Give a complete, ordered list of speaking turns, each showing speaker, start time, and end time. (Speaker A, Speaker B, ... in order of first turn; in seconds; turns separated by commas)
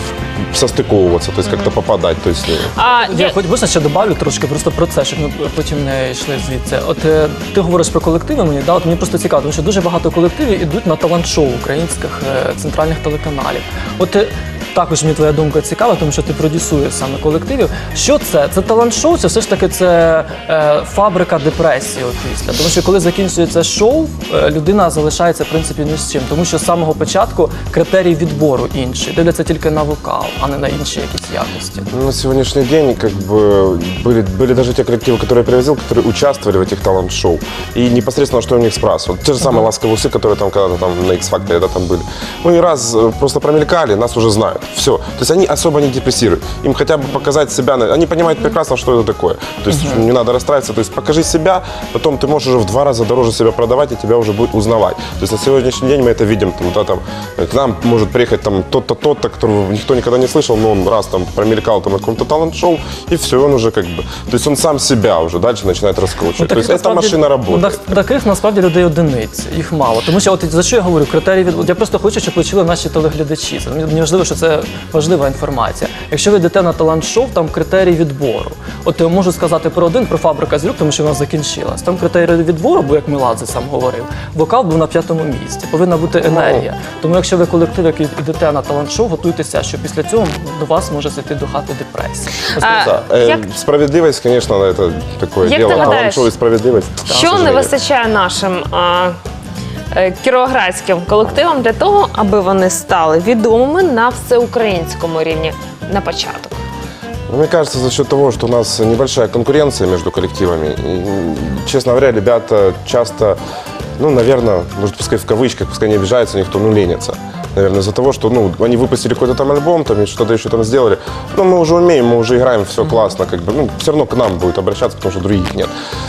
Speaker A: 0.5-2.7, Speaker B: 1.5-1.7, Speaker B: 2.8-3.4, Speaker C: 2.9-31.9, Speaker A: 31.9-67.9, Speaker C: 49.7-50.0, Speaker C: 66.4-93.0, Speaker A: 86.2-86.7, Speaker B: 92.6-93.5, Speaker A: 92.8-97.7, Speaker B: 95.4-96.3, Speaker C: 95.7-96.1, Speaker B: 97.1-99.2, Speaker B: 99.9-106.6, Speaker A: 107.3-113.4, Speaker A: 114.0-125.7